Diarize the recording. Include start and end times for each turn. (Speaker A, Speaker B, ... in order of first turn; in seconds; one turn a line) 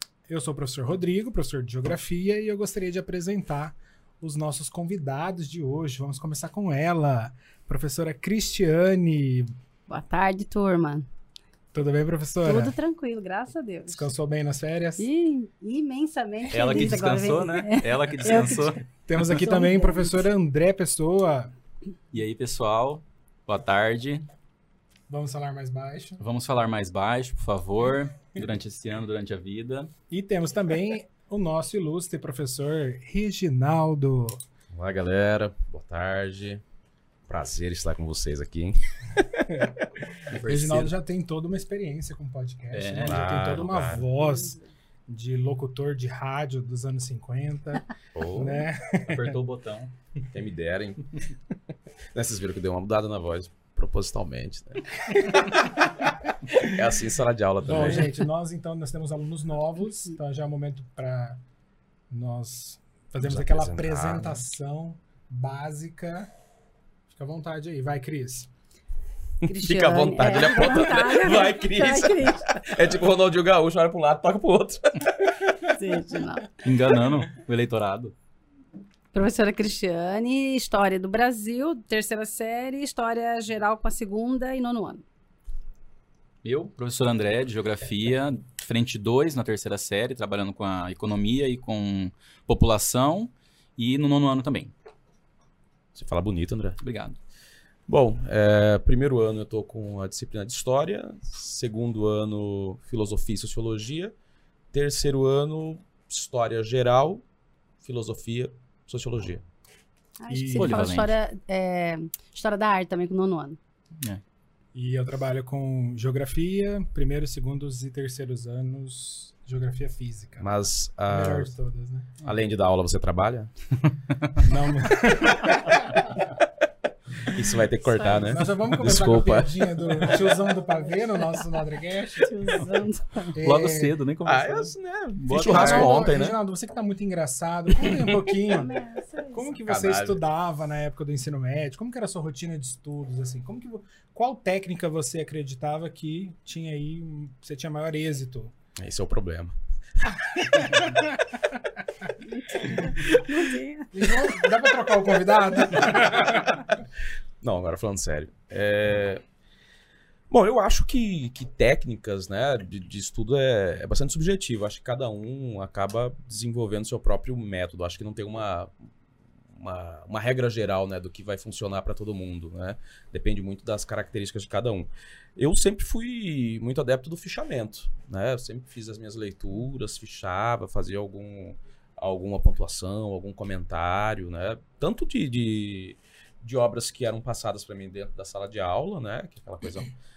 Speaker A: 0.3-9.5
Speaker B: 9.9-11.1
Speaker A: 11.7-12.7
Speaker B: 12.4-14.1
Speaker A: 13.9-15.1
Speaker B: 15.0-18.8
Speaker C: 16.5-19.3
Speaker A: 18.3-21.5
Speaker B: 19.3-20.1
Speaker C: 22.1-24.3
Speaker A: 25.1-26.2
Speaker C: 26.2-29.9
Speaker A: 30.1-34.4
Speaker D: 34.7-36.6
Speaker D: 37.3-39.9
Speaker A: 39.5-44.6
Speaker C: 40.3-40.9
Speaker C: 42.7-43.2
Speaker D: 43.0-44.0
Speaker B: 44.1-44.7
Speaker A: 45.1-49.4
Speaker D: 48.1-48.7
Speaker C: 49.1-49.9
Speaker D: 50.3-51.0
Speaker D: 52.1-55.6
Speaker A: 55.1-55.5
Speaker D: 56.6-58.1
Speaker A: 57.6-61.4
Speaker A: 62.1-66.3
Speaker D: 63.2-64.4
Speaker A: 67.1-68.5
Speaker D: 69.4-75.5
Speaker B: 69.5-72.7
Speaker B: 75.7-76.5
Speaker C: 76.6-78.1
Speaker B: 79.1-85.0
Speaker C: 86.4-94.7
Speaker D: 96.0-96.8
Speaker C: 96.8-97.2
Speaker D: 97.9-104.1
Speaker D: 104.7-107.2
Speaker D: 107.8-109.4
Speaker B: 110.2-113.6
Speaker A: 110.3-110.9
Speaker C: 110.6-111.1
Speaker A: 114.7-120.5
Speaker D: 120.4-121.5
Speaker A: 121.1-122.1
Speaker D: 122.2-123.5
Speaker C: 123.8-124.5
Speaker A: 124.4-126.2
Speaker D: 127.2-130.4
Speaker B: 127.9-128.3
Speaker A: 128.2-132.7
Speaker B: 132.2-133.3
Speaker A: 133.3-133.9
Speaker C: 133.4-135.9
Speaker D: 134.2-136.4
Speaker A: 135.3-138.8
Speaker D: 137.8-138.1
Speaker B: 138.5-139.5
Speaker A: 139.3-148.5
Speaker D: 139.7-140.2
Speaker D: 148.8-149.6
Speaker A: 150.5-151.1
Speaker B: 152.3-153.9
Speaker A: 153.9-156.5
Speaker D: 155.7-156.8
Speaker D: 157.4-159.2
Speaker D: 160.3-168.7
Speaker D: 169.5-189.9